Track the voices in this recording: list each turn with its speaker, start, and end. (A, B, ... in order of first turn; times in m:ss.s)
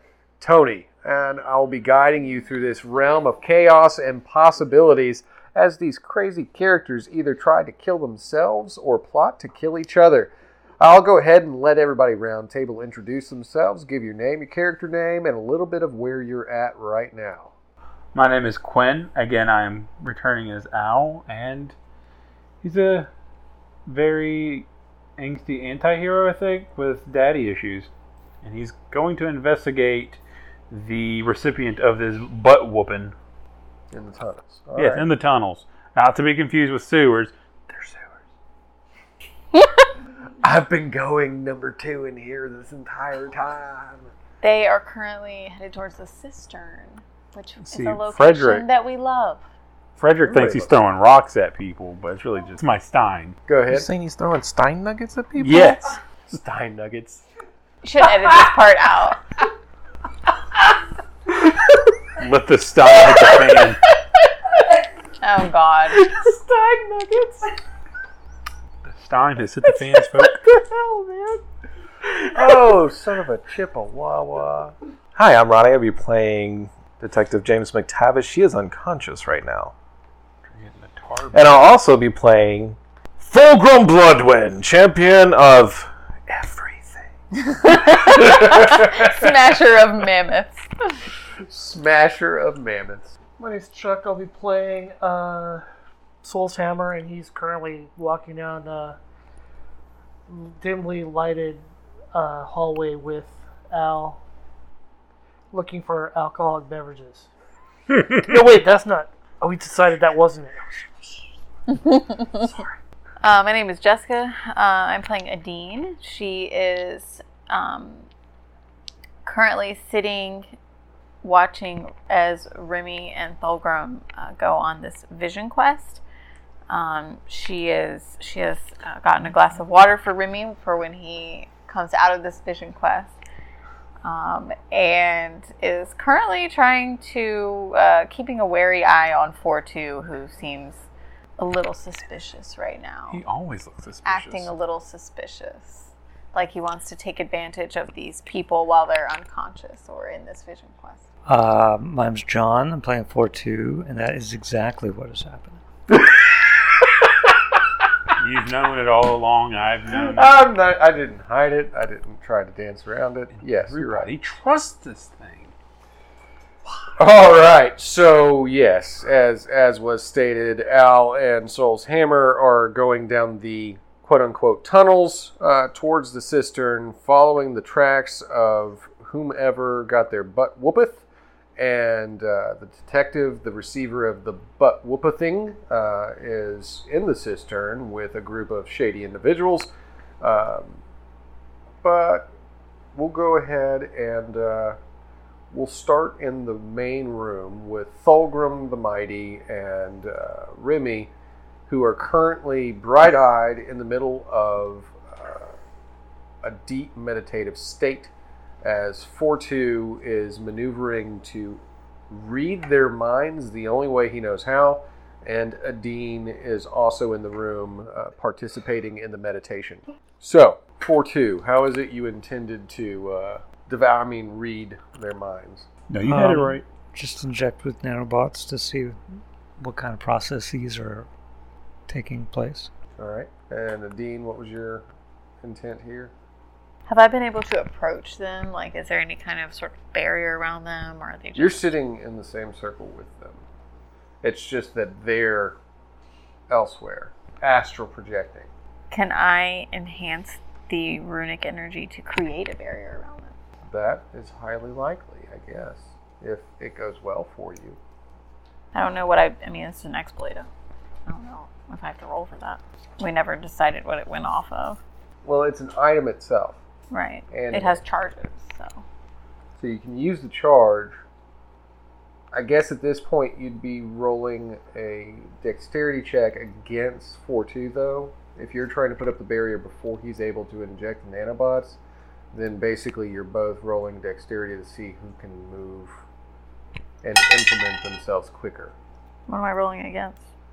0:00.4-0:17.5 A
0:18.1-0:21.8 B
0:22.6-0:23.1 B
0:23.8-0:27.9 B
0:28.4-0:33.1 B
0:33.9-0:35.0 A
0:34.8-0:38.2 B
0:40.4-0:44.1 A
0:44.4-0:49.4 C
0:47.6-0:48.6 B
0:50.0-0:53.4 B
0:50.2-0:50.8 A
0:53.5-0:53.9 A
0:53.7-0:55.9 D
0:55.4-0:56.0 B
0:56.2-0:57.2 A
0:57.8-0:59.2 C
1:02.1-1:03.8 B
1:05.2-1:06.1 C
1:06.0-1:07.5 A
1:08.8-1:10.4 B
1:10.2-1:11.4 A
1:12.0-1:14.7 A
1:15.1-1:19.7 D
1:20.4-1:21.7 B
1:21.3-1:27.1 D
1:27.3-1:30.7 C
1:28.2-1:29.0 A
1:31.4-1:33.2 A
1:33.3-1:35.6 E
1:36.2-1:39.0 E
1:40.3-1:44.2 E
1:45.5-1:47.3 E
1:48.1-1:51.3 E
1:51.7-1:52.5 C
1:53.2-1:58.1 C
1:59.2-2:00.5 C
2:01.2-2:06.0 C
2:06.7-2:13.1 C
2:14.0-2:20.8 C
2:21.4-2:23.2 C
2:23.1-2:24.5 B
2:24.0-2:31.0 C
2:31.2-2:35.6 F
2:35.9-2:36.2 A
2:38.2-2:40.5 B
2:39.9-2:44.1 A
2:43.3-2:45.5 B
2:47.0-3:01.0 A
3:01.6-3:09.7 A
3:10.2-3:10.8 A
3:11.8-3:12.3 A
3:12.9-3:14.8 A
3:15.5-3:21.1 A
3:21.7-3:25.5 A
3:26.4-3:28.1 A
3:28.6-3:45.7 A
3:45.9-3:46.6 B
3:46.1-3:49.0 F
3:49.6-3:51.1 F
3:51.9-3:52.7 F
3:53.0-3:54.8 A
3:55.4-3:56.1 A
3:56.9-4:01.7 C
4:01.3-4:03.4 A
4:04.2-4:05.6 A
4:06.5-4:08.5 A
4:08.9-4:13.3 C
4:13.6-4:17.8 A
4:18.7-4:20.5 C
4:21.0-4:24.8 C
4:25.2-4:26.6 A
4:26.9-4:28.8 C
4:27.3-4:27.8 A
4:29.6-4:31.0 A
4:32.3-4:41.8 A
4:42.3-4:45.9 A
4:47.0-4:48.7 A
4:49.3-4:50.2 C